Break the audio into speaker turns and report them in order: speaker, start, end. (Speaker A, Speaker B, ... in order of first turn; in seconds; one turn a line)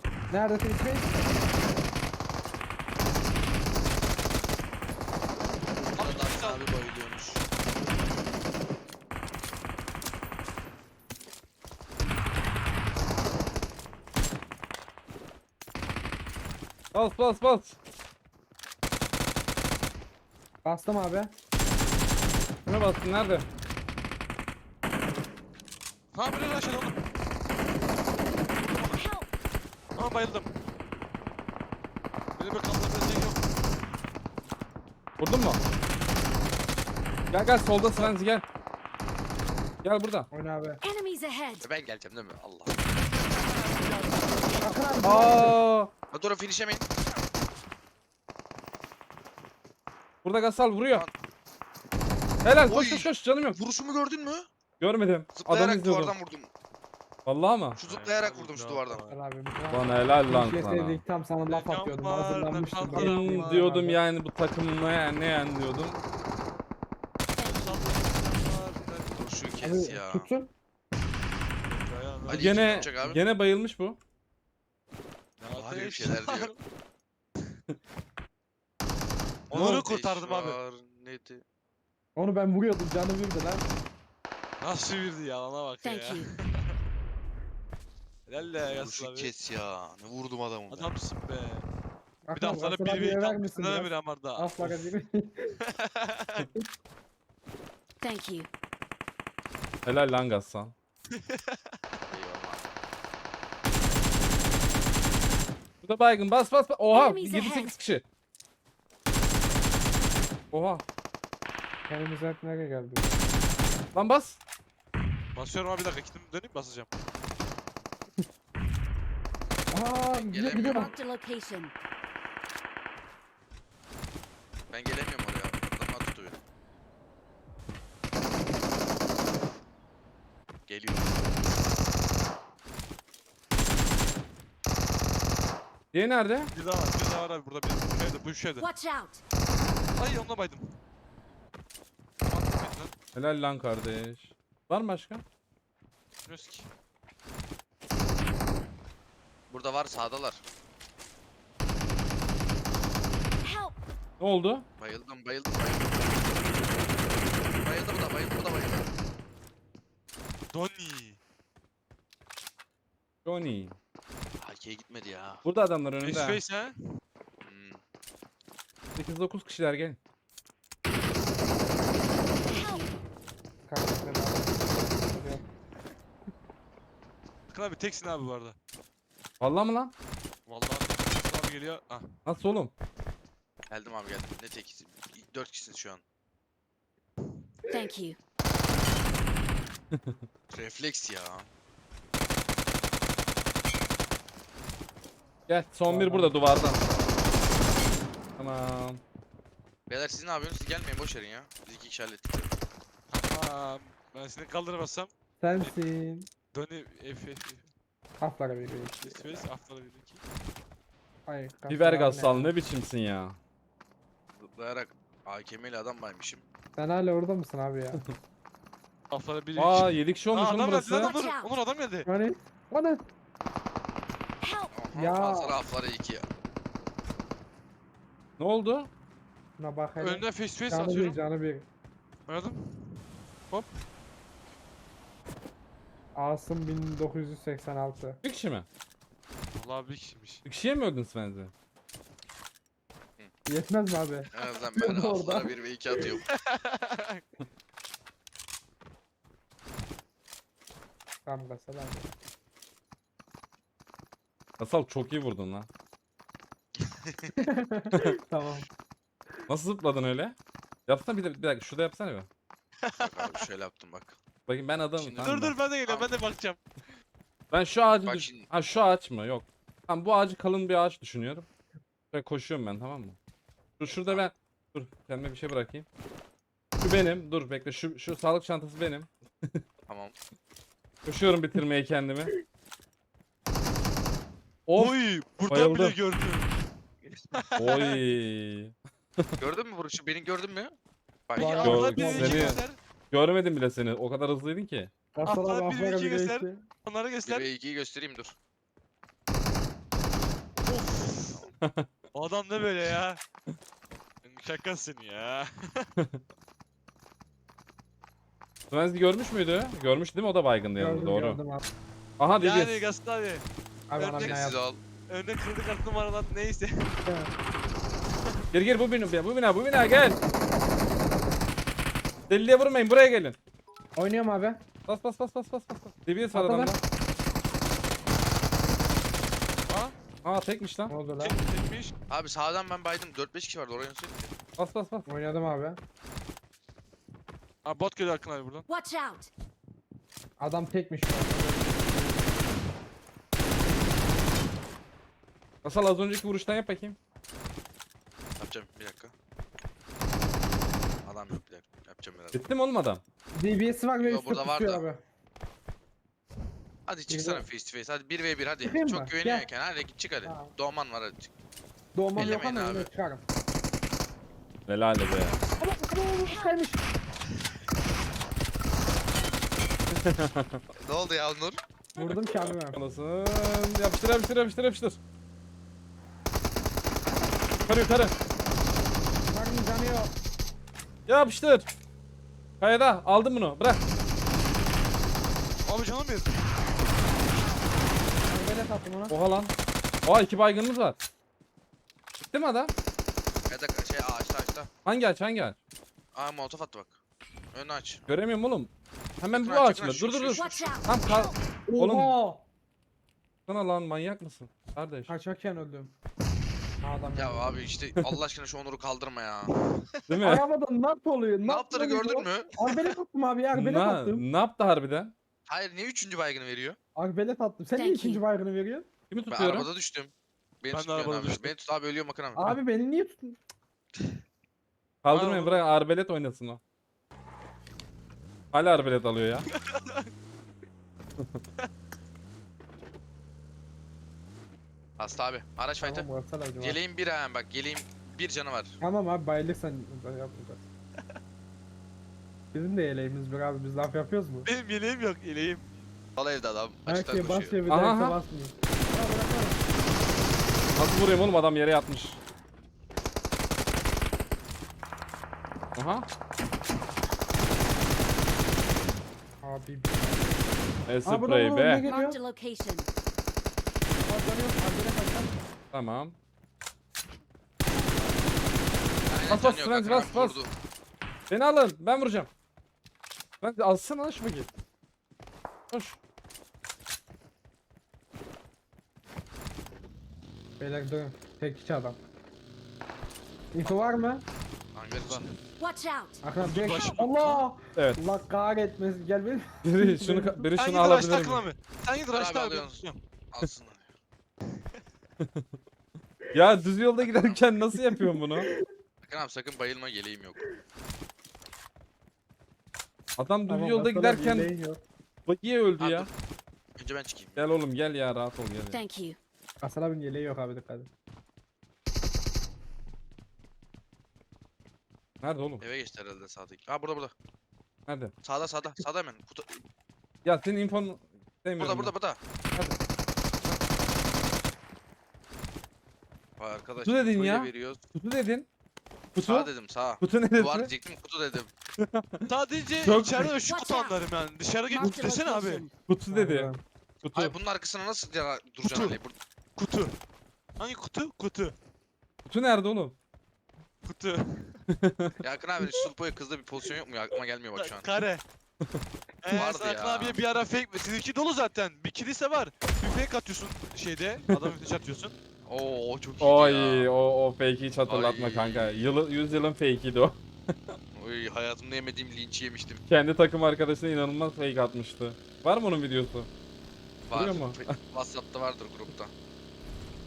Speaker A: 0.3-1.7
Speaker B: 5.9-7.5
Speaker C: 6.0-6.7
Speaker D: 16.9-17.8
Speaker A: 20.6-21.3
Speaker D: 22.7-23.5
Speaker C: 26.1-26.9
Speaker C: 28.6-29.0
Speaker E: 28.9-29.3
Speaker C: 30.0-30.5
Speaker C: 32.4-33.4
Speaker D: 35.2-35.6
Speaker D: 37.3-38.4
Speaker D: 39.8-40.3
Speaker A: 40.3-40.8
Speaker E: 40.8-41.6
Speaker B: 41.6-42.8
Speaker C: 43.2-45.0
Speaker A: 44.6-45.6
Speaker D: 45.0-45.9
Speaker B: 46.1-46.9
Speaker D: 50.2-51.0
Speaker D: 52.4-53.6
Speaker B: 52.6-54.5
Speaker D: 54.8-56.1
Speaker B: 55.4-56.5
Speaker D: 57.3-57.8
Speaker B: 57.8-59.1
Speaker C: 57.8-59.2
Speaker A: 59.1-64.0
Speaker D: 59.7-61.0
Speaker C: 61.5-63.6
Speaker D: 63.0-66.0
Speaker C: 67.4-69.2
Speaker B: 69.1-70.3
Speaker A: 69.6-70.5
Speaker C: 71.7-73.2
Speaker B: 72.3-73.2
Speaker D: 72.3-74.0
Speaker C: 75.4-76.5
Speaker B: 75.5-76.5
Speaker B: 79.5-81.4
Speaker D: 79.5-79.8
Speaker C: 79.5-80.6
Speaker A: 82.2-83.7
Speaker C: 84.6-86.8
Speaker E: 85.8-86.3
Speaker C: 88.3-89.3
Speaker B: 88.7-90.9
Speaker C: 90.7-91.7
Speaker A: 92.2-95.5
Speaker C: 92.3-94.9
Speaker C: 95.7-96.5
Speaker E: 98.0-98.5
Speaker D: 99.8-100.7
Speaker C: 101.3-101.6
Speaker B: 102.1-102.7
Speaker D: 105.8-108.0
Speaker E: 106.9-107.8
Speaker D: 110.5-110.8
Speaker A: 111.9-113.3
Speaker D: 113.9-114.4
Speaker C: 115.3-116.9
Speaker A: 119.7-120.9
Speaker B: 120.2-121.0
Speaker E: 120.5-121.8
Speaker B: 124.7-126.4
Speaker B: 130.7-131.4
Speaker D: 135.9-136.5
Speaker C: 136.6-138.7
Speaker E: 138.6-139.2
Speaker C: 139.9-140.8
Speaker C: 142.2-142.9
Speaker D: 143.2-145.2
Speaker C: 146.3-146.7
Speaker B: 149.5-150.4
Speaker E: 153.4-153.8
Speaker D: 154.2-154.7
Speaker B: 154.8-156.5
Speaker B: 157.6-158.9
Speaker C: 160.5-161.2
Speaker D: 163.2-163.8
Speaker B: 164.4-165.4
Speaker D: 165.4-166.4
Speaker C: 166.0-166.8
Speaker B: 167.4-167.8
Speaker D: 169.0-170.0
Speaker E: 172.4-172.9
Speaker A: 173.7-175.4
Speaker C: 177.5-178.6
Speaker D: 179.4-179.9
Speaker C: 180.5-182.1
Speaker D: 182.3-182.7
Speaker B: 183.7-186.0
Speaker E: 187.7-188.2
Speaker D: 189.9-190.2
Speaker B: 190.5-191.5
Speaker D: 195.5-196.8
Speaker A: 195.9-196.4
Speaker D: 198.4-199.0
Speaker B: 199.9-202.5
Speaker C: 203.1-205.8
Speaker A: 205.4-206.3
Speaker C: 206.5-207.7
Speaker A: 208.2-209.5
Speaker C: 209.0-210.2
Speaker A: 211.3-212.5
Speaker D: 211.7-213.4
Speaker B: 214.4-216.4
Speaker A: 216.8-218.0
Speaker C: 219.1-222.1
Speaker D: 219.6-221.1
Speaker E: 221.0-221.5
Speaker A: 222.1-223.1
Speaker E: 224.4-224.8
Speaker B: 224.7-226.2
Speaker A: 224.9-225.6
Speaker D: 228.4-228.9
Speaker A: 229.6-231.7
Speaker C: 230.0-231.2
Speaker C: 232.3-232.7
Speaker A: 236.2-238.2
Speaker D: 238.2-238.7
Speaker C: 239.5-240.4
Speaker D: 240.4-241.5
Speaker A: 243.5-245.6
Speaker B: 244.3-246.2
Speaker C: 246.3-247.2
Speaker A: 251.3-252.2
Speaker D: 254.6-255.7
Speaker B: 256.8-257.3
Speaker A: 257.4-258.7
Speaker D: 259.5-262.3
Speaker C: 262.8-263.4
Speaker B: 263.0-264.2
Speaker D: 264.5-265.6
Speaker B: 265.0-266.1
Speaker C: 265.2-266.6
Speaker D: 267.5-271.5
Speaker B: 268.0-268.5
Speaker D: 272.1-273.2
Speaker D: 273.8-275.9
Speaker B: 273.9-274.3
Speaker D: 276.8-279.6
Speaker B: 279.9-280.1
Speaker D: 281.1-282.3
Speaker D: 284.7-286.0
Speaker C: 284.8-286.5
Speaker C: 287.3-288.0
Speaker D: 287.6-289.3
Speaker B: 289.4-290.8
Speaker B: 291.3-291.9
Speaker C: 291.4-292.8
Speaker A: 291.4-292.6
Speaker D: 291.6-294.9
Speaker A: 295.1-296.6
Speaker C: 295.2-297.5
Speaker B: 297.2-298.4
Speaker C: 300.6-301.5
Speaker D: 301.6-301.9
Speaker C: 302.1-303.2
Speaker C: 304.2-305.9
Speaker D: 308.7-311.4
Speaker A: 310.8-311.7
Speaker D: 312.2-312.9
Speaker C: 312.4-313.4
Speaker A: 313.9-314.6
Speaker C: 314.0-314.5
Speaker B: 314.1-314.8
Speaker C: 315.1-316.9
Speaker A: 317.1-317.3
Speaker D: 318.5-320.2
Speaker D: 322.3-323.4
Speaker A: 324.0-324.6
Speaker D: 324.9-326.8
Speaker A: 326.3-326.8
Speaker C: 329.7-329.9
Speaker D: 330.2-330.9
Speaker A: 330.9-331.4
Speaker C: 331.2-331.9
Speaker B: 332.1-334.3
Speaker D: 334.6-335.1
Speaker A: 335.1-335.8
Speaker C: 337.6-338.7
Speaker E: 338.7-339.3
Speaker A: 340.4-342.5
Speaker D: 345.6-347.0
Speaker B: 348.4-349.1
Speaker B: 351.1-352.4
Speaker D: 352.3-353.0
Speaker A: 353.3-355.0
Speaker B: 354.0-354.9
Speaker B: 356.9-361.3
Speaker A: 357.1-357.5
Speaker A: 358.6-359.5
Speaker A: 360.2-360.6
Speaker A: 361.9-363.2
Speaker B: 362.1-362.9
Speaker D: 364.7-365.4
Speaker A: 365.6-366.9
Speaker E: 366.2-366.5
Speaker D: 369.9-370.6
Speaker B: 370.7-371.6
Speaker A: 372.0-372.8
Speaker D: 372.0-375.0
Speaker D: 377.7-378.1
Speaker A: 379.2-380.1
Speaker D: 381.1-381.7
Speaker D: 382.6-383.8
Speaker C: 385.6-386.3
Speaker A: 388.3-389.2
Speaker D: 389.1-389.5
Speaker D: 390.1-391.0
Speaker D: 392.2-392.7
Speaker B: 393.5-394.7
Speaker D: 394.9-395.6
Speaker B: 396.1-397.0
Speaker B: 397.5-398.0
Speaker D: 398.1-402.1
Speaker B: 399.3-400.8
Speaker E: 400.4-401.4
Speaker A: 401.7-402.4
Speaker D: 403.5-405.1
Speaker A: 405.1-405.9
Speaker A: 406.8-407.7
Speaker B: 407.1-409.8
Speaker D: 410.1-410.4
Speaker A: 410.2-414.3
Speaker B: 411.4-412.7
Speaker D: 413.5-415.1
Speaker B: 415.5-416.8
Speaker A: 417.0-418.9
Speaker E: 417.8-418.2
Speaker D: 419.1-419.7
Speaker B: 419.3-422.6
Speaker C: 420.7-421.6
Speaker A: 422.4-423.4
Speaker D: 425.0-426.6
Speaker C: 425.1-425.6
Speaker D: 428.5-429.5
Speaker C: 429.6-430.1
Speaker B: 435.0-438.8
Speaker A: 435.8-436.8
Speaker A: 438.8-440.7
Speaker A: 442.5-444.5
Speaker C: 444.5-445.6
Speaker B: 446.2-447.6
Speaker A: 446.9-449.6
Speaker D: 447.7-448.2
Speaker D: 450.8-452.2
Speaker D: 455.8-456.1
Speaker A: 459.4-460.4
Speaker D: 460.9-461.8
Speaker A: 461.1-462.2
Speaker E: 461.8-462.9
Speaker A: 464.0-465.4
Speaker D: 465.7-466.2
Speaker B: 469.1-470.5
Speaker D: 469.3-470.4
Speaker D: 471.3-472.3
Speaker D: 473.4-474.5
Speaker D: 475.7-476.0
Speaker A: 480.6-482.0
Speaker A: 483.5-484.3
Speaker B: 483.6-484.0
Speaker B: 484.7-485.4
Speaker C: 485.0-485.3
Speaker E: 485.6-487.0
Speaker A: 486.2-490.5
Speaker C: 486.4-487.4
Speaker D: 487.8-488.1
Speaker D: 489.6-491.5
Speaker C: 490.5-493.0
Speaker B: 492.1-493.8
Speaker D: 495.2-495.5
Speaker D: 496.3-498.5
Speaker B: 497.0-497.5
Speaker B: 499.0-500.4
Speaker D: 503.2-504.5
Speaker A: 503.5-504.8
Speaker D: 505.3-506.1
Speaker B: 505.8-506.1
Speaker B: 506.8-507.4
Speaker D: 507.4-508.8
Speaker E: 508.7-509.2
Speaker A: 509.6-510.9
Speaker D: 515.2-515.6
Speaker B: 515.6-517.1
Speaker D: 517.9-518.1
Speaker B: 518.2-519.6
Speaker D: 520.2-521.9
Speaker B: 521.6-522.2
Speaker B: 526.4-527.8
Speaker D: 526.8-528.5
Speaker D: 529.1-529.5
Speaker B: 529.3-531.5
Speaker D: 530.0-530.7
Speaker D: 531.8-532.3
Speaker C: 532.3-535.7
Speaker D: 532.8-533.3
Speaker E: 533.5-534.0
Speaker E: 534.7-535.7
Speaker D: 535.9-536.5
Speaker A: 536.1-536.6
Speaker D: 537.0-537.4
Speaker B: 537.1-539.1
Speaker C: 538.6-539.0
Speaker C: 539.6-540.0
Speaker C: 540.6-541.5
Speaker D: 542.3-543.0
Speaker C: 543.8-544.6
Speaker D: 544.7-545.1
Speaker B: 545.2-547.9
Speaker C: 547.5-548.2
Speaker C: 549.2-555.2
Speaker B: 549.3-550.2
Speaker B: 555.5-556.9
Speaker D: 556.2-560.8
Speaker B: 557.9-558.9
Speaker B: 561.0-562.8
Speaker D: 562.9-566.3
Speaker B: 567.1-569.1
Speaker D: 567.1-567.7